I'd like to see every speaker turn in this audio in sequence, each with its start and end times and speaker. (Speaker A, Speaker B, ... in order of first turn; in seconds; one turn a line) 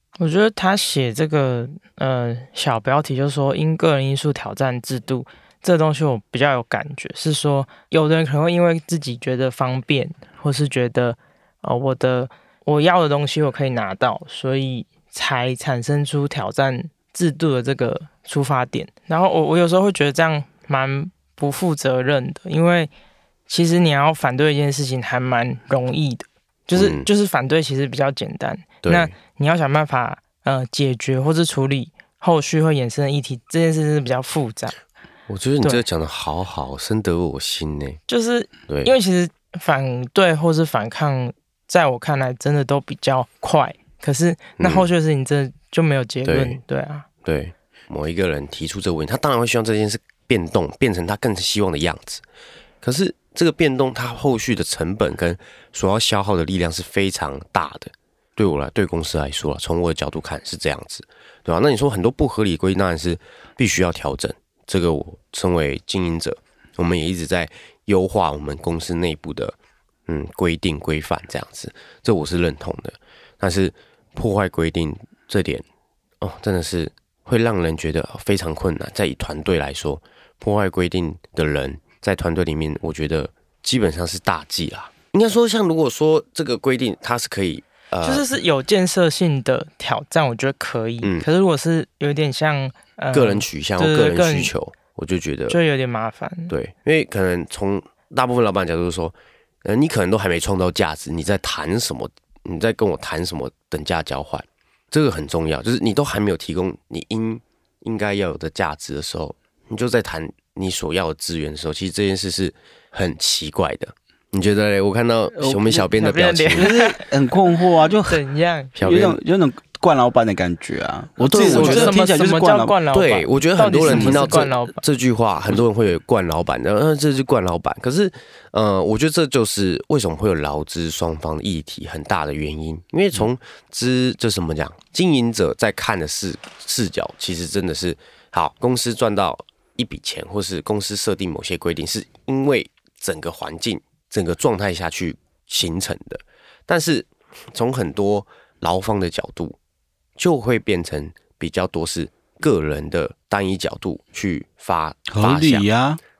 Speaker A: 0.2-22.9
Speaker A: 23.5-34.7
Speaker B: 26.7-27.1
Speaker B: 28.8-29.1
Speaker B: 35.3-38.0
Speaker A: 38.1-47.0
Speaker B: 44.6-44.9
Speaker B: 46.3-46.6
Speaker B: 47.2-52.2
Speaker B: 52.8-69.5
Speaker B: 70.1-75.6
Speaker B: 76.2-88.3
Speaker A: 88.0-94.5
Speaker B: 91.0-91.3
Speaker B: 93.1-95.6
Speaker A: 95.5-96.5
Speaker B: 96.5-116.8
Speaker C: 115.3-115.9
Speaker A: 115.9-117.1
Speaker C: 116.5-118.2
Speaker A: 118.1-118.7
Speaker B: 118.8-119.2
Speaker C: 118.8-122.8
Speaker B: 121.2-122.0
Speaker A: 121.3-124.8
Speaker B: 122.9-149.6
Speaker C: 123.8-124.5
Speaker B: 150.2-155.7
Speaker C: 155.1-156.0